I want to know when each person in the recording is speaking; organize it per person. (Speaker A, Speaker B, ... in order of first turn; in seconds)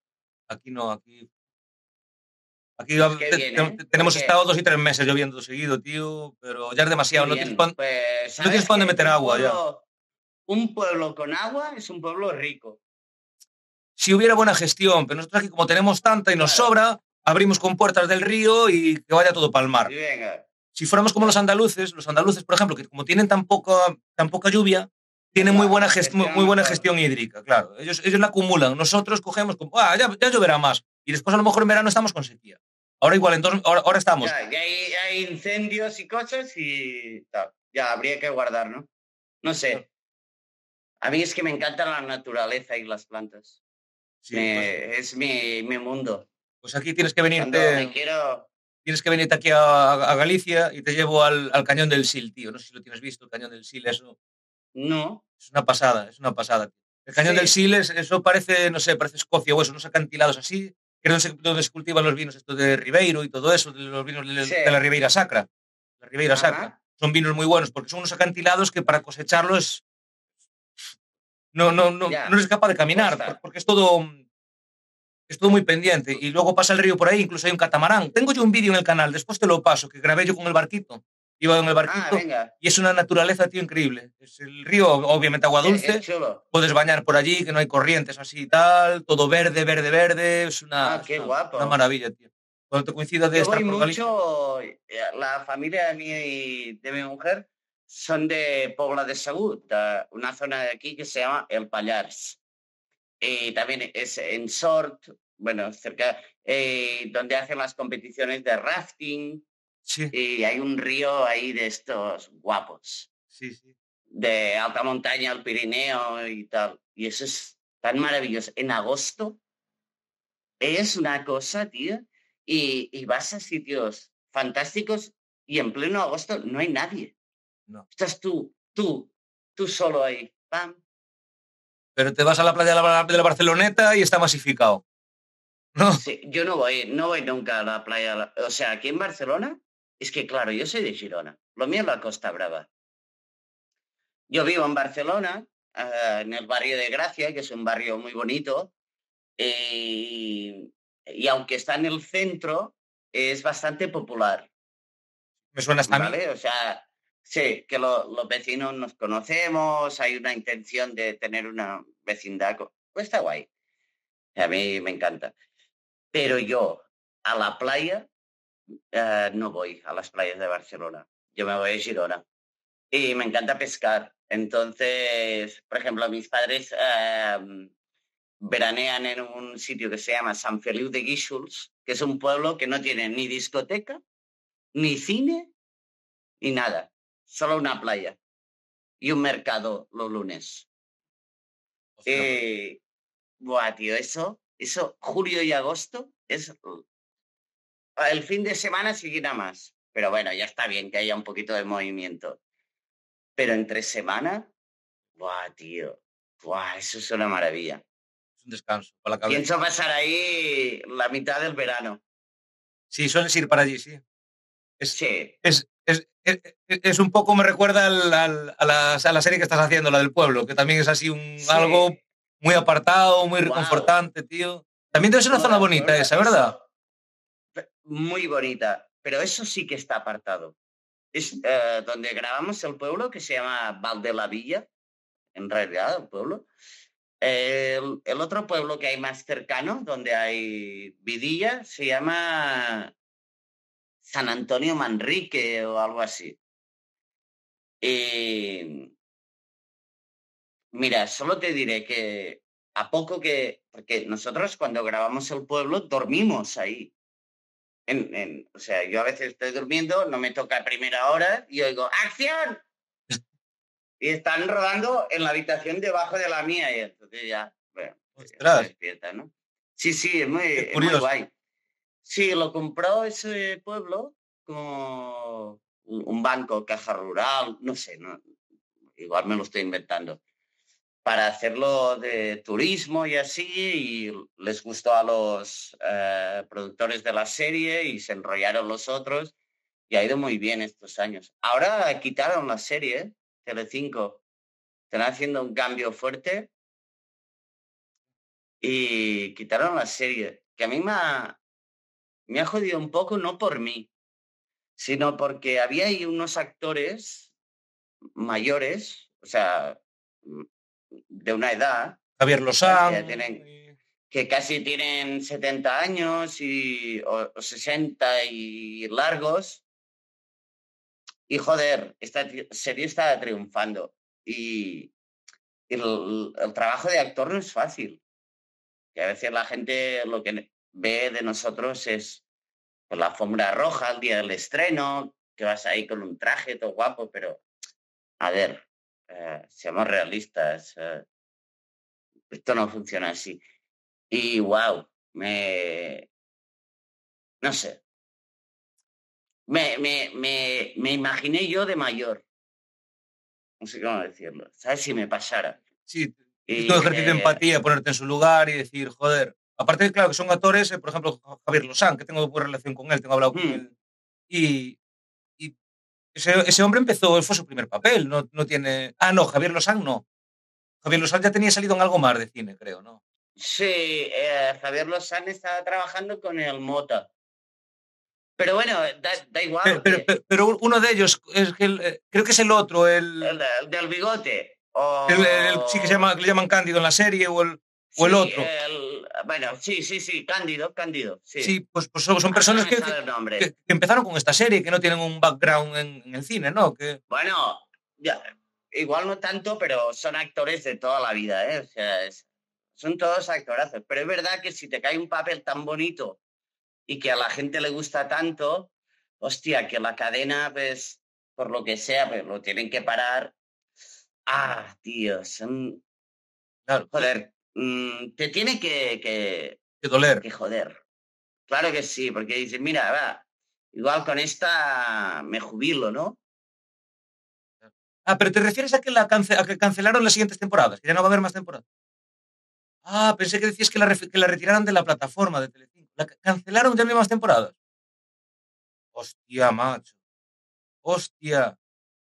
Speaker A: 0.5-1.3, 2.8-7.8, 8.4-9.6, 14.0-19.9, 20.8-34.3, 44.2-44.7, 46.6-47.9, 48.9-54.1, 55.4-65.5, 66.0-69.8, 71.5-74.2, 75.3-94.0, 109.9-110.1, 113.3-113.7, 132.0-134.8, 135.8-136.0, 155.5-156.2, 192.0-192.3, 208.4-209.4, 212.9-214.0, 214.8-226.5, 268.2-268.7, 270.6-271.1, 312.2-313.8, 355.9-363.7, 364.3-364.8, 366.1-370.1, 370.8-373.0, 379.6-383.4, 385.1-388.5, 391.4-397.0, 416.7-417.1, 419.8-420.2, 428.1-431.6, 432.9-437.5, 438.9-439.9, 440.8-441.6
Speaker B: 3.0-4.3, 7.1-9.8, 10.5-12.8, 16.4-16.7, 19.8-20.4, 25.4-26.9, 34.2-38.9, 39.4-39.8, 41.0-43.6, 44.3-46.3, 47.4-48.5, 54.8-55.2, 57.2-57.5, 64.4-64.8, 66.3-66.8, 72.1-72.3, 72.9-73.4, 81.9-82.5, 85.6-86.4, 90.8-91.8, 93.3-102.4, 103.2-109.4, 110.1-113.1, 114.2-119.4, 120.6-127.1, 128.0-130.8, 136.0-142.7, 144.3-148.7, 149.4-154.5, 155.9-163.5, 164.4-165.3, 166.1-168.1, 168.9-172.2, 172.9-177.7, 178.5-184.0, 184.8-185.5, 186.4-188.2, 189.0-190.7, 192.1-192.8, 193.4-196.8, 198.0-202.4, 203.4-204.5, 205.2-207.8, 209.3-212.0, 214.9-215.3, 221.4-221.9, 223.4-223.9, 225.3-226.6, 227.6-230.6, 231.1-234.7, 235.3-236.5, 237.2-242.9, 244.1-246.4, 247.8-248.9, 250.7-256.9, 257.9-262.6, 264.0-271.3, 272.1-278.2, 279.0-280.2, 281.1-289.3, 289.9-294.2, 294.9-296.5, 298.6-301.4, 302.3-303.9, 304.8-307.3, 308.2-310.5, 311.1-312.0, 312.6-313.4, 314.1-319.6, 321.3-324.9, 325.7-328.0, 328.9-332.2, 332.9-337.4, 338.2-341.1, 342.3-343.4, 344.1-346.1, 347.4-347.8, 349.5-352.2, 353.6-355.6, 356.5-357.4, 363.3-363.6, 373.4-377.1, 378.4-380.1, 383.2-386.1, 387.9-391.5, 392.3-393.5, 397.1-402.2, 402.8-406.2, 406.9-408.7, 409.2-413.3, 414.3-415.8, 416.9-419.6, 420.2-420.8, 421.5-426.2